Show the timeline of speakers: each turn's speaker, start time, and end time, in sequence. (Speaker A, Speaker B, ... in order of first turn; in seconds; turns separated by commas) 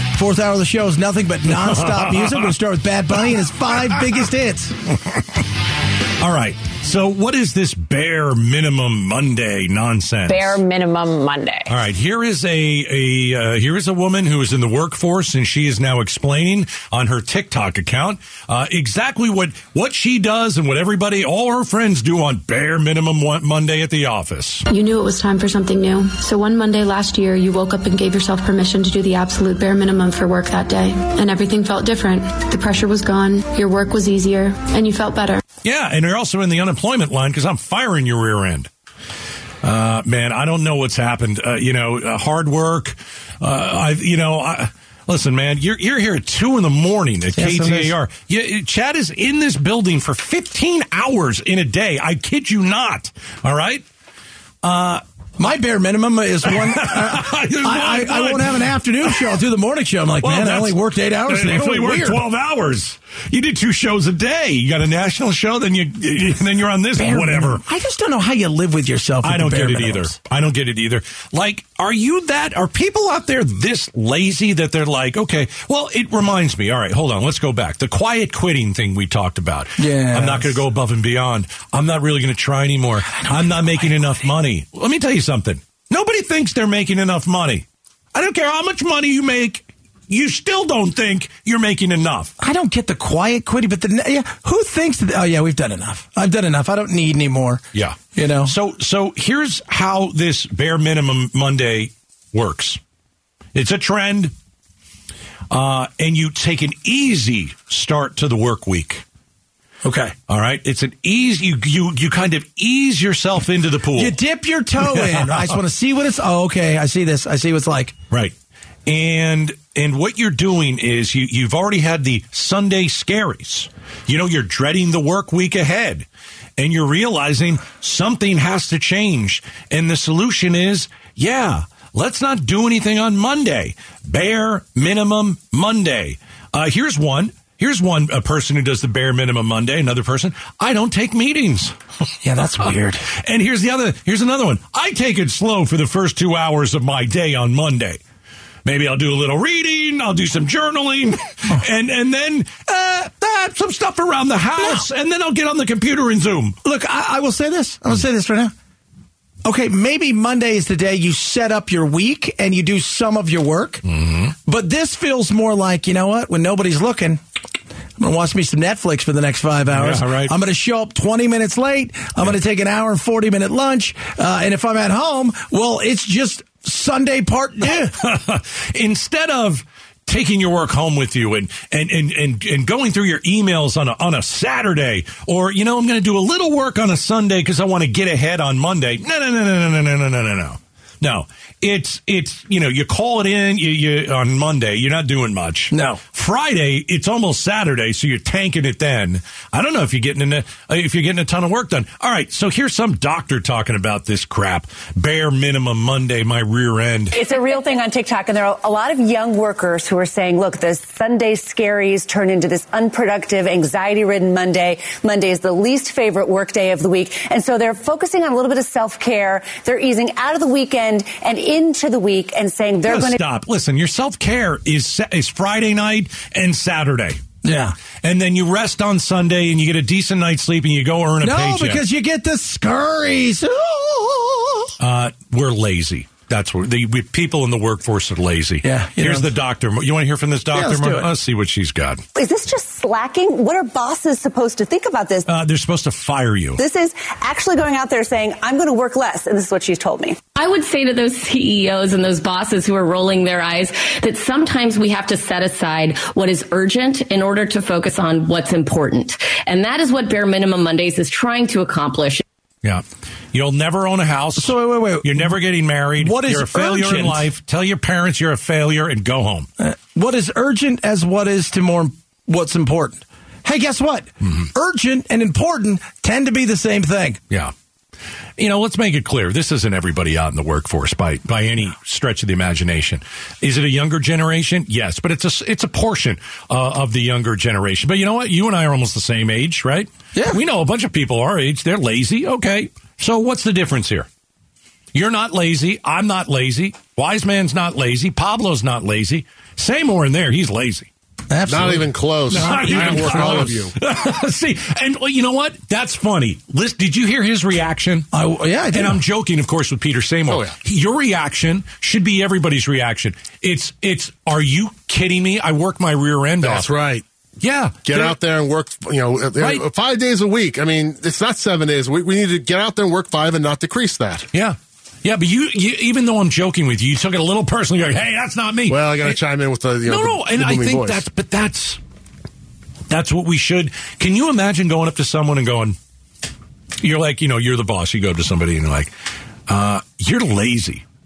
Speaker A: 0.1-4.8, Speaker B: 1.7-2.5, Speaker B: 6.2-10.6, Speaker B: 11.7-24.6, Speaker C: 24.7-35.4, Speaker B: 35.6-38.7, Speaker B: 39.6-53.8, Speaker A: 47.3-48.0, Speaker B: 54.6-55.0, Speaker A: 55.4-62.2, Speaker B: 56.5-59.4, Speaker B: 60.2-67.6, Speaker A: 67.0-70.2, Speaker B: 69.2-92.3, Speaker A: 79.8-80.6, Speaker A: 83.1-84.2, Speaker A: 92.4-97.6, Speaker B: 97.7-102.8, Speaker A: 98.1-98.5, Speaker B: 103.5-104.3, Speaker B: 105.5-109.0, Speaker A: 109.8-110.1, Speaker B: 110.3-114.2, Speaker A: 113.9-117.9, Speaker B: 114.8-115.5, Speaker B: 118.8-126.0, Speaker B: 126.6-141.7, Speaker A: 142.2-143.1, Speaker B: 143.2-148.0, Speaker B: 148.6-156.6, Speaker A: 154.6-154.8, Speaker A: 156.6-158.5, Speaker A: 159.4-163.8, Speaker B: 163.8-164.3, Speaker A: 164.4-167.2, Speaker A: 168.0-177.9, Speaker B: 169.7-170.3, Speaker B: 177.7-207.1, Speaker A: 195.7-196.0, Speaker D: 207.1-223.2, Speaker B: 222.8-227.2, Speaker A: 227.4-227.8, Speaker B: 228.0-231.8, Speaker A: 231.2-234.7, Speaker B: 234.8-242.0, Speaker A: 238.6-239.4, Speaker A: 240.5-241.1, Speaker D: 242.2-245.3, Speaker B: 245.2-246.6, Speaker D: 246.6-250.2, Speaker E: 250.3-262.2, Speaker B: 263.3-269.5, Speaker A: 264.4-265.3, Speaker A: 266.0-267.3, Speaker A: 269.6-277.2, Speaker B: 278.4-294.1, Speaker A: 290.1-290.4, Speaker B: 294.9-300.9, Speaker A: 301.3-303.6, Speaker F: 301.5-303.8, Speaker B: 302.3-308.1, Speaker A: 308.1-309.0, Speaker B: 308.7-316.7, Speaker F: 310.3-310.5, Speaker F: 316.4-317.0, Speaker B: 317.4-318.2, Speaker F: 317.8-324.3, Speaker B: 319.4-319.6, Speaker B: 324.3-329.2, Speaker F: 328.7-331.0, Speaker B: 329.8-331.8, Speaker B: 332.9-335.8, Speaker B: 336.8-338.9, Speaker B: 339.5-340.8